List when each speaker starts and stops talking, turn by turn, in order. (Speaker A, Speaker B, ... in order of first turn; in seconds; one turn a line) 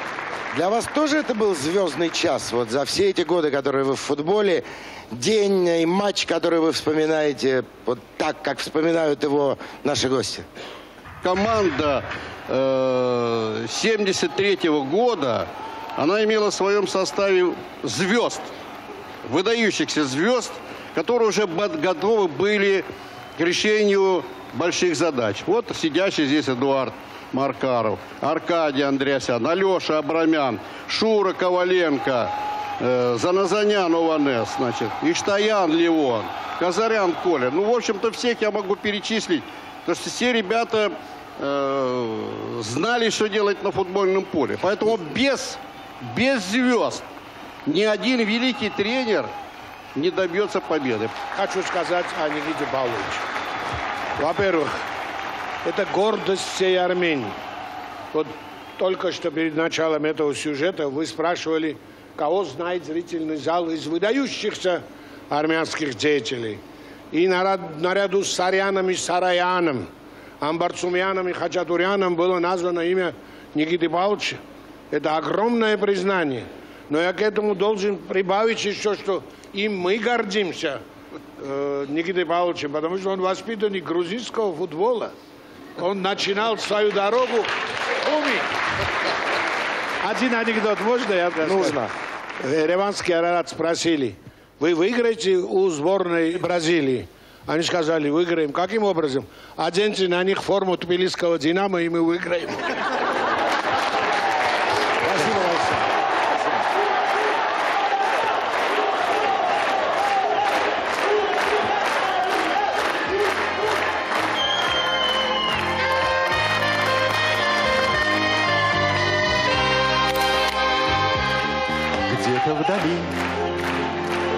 Speaker A: 0.5-10.5
Speaker B: 11.2-18.5
Speaker B: 19.2-22.9
Speaker B: 23.4-47.0
Speaker B: 47.7-49.3
Speaker B: 50.0-51.1
Speaker C: 51.3-53.2
Speaker C: 54.2-54.8
Speaker C: 55.6-57.4
Speaker C: 58.1-66.6
Speaker C: 67.1-69.9
Speaker C: 70.4-80.8
Speaker C: 81.4-85.1
Speaker C: 85.8-87.5
Speaker C: 88.0-88.5
Speaker C: 90.0-91.8
Speaker A: 91.4-91.9
Speaker C: 92.4-102.7
Speaker A: 105.0-105.9
Speaker B: 122.1-123.2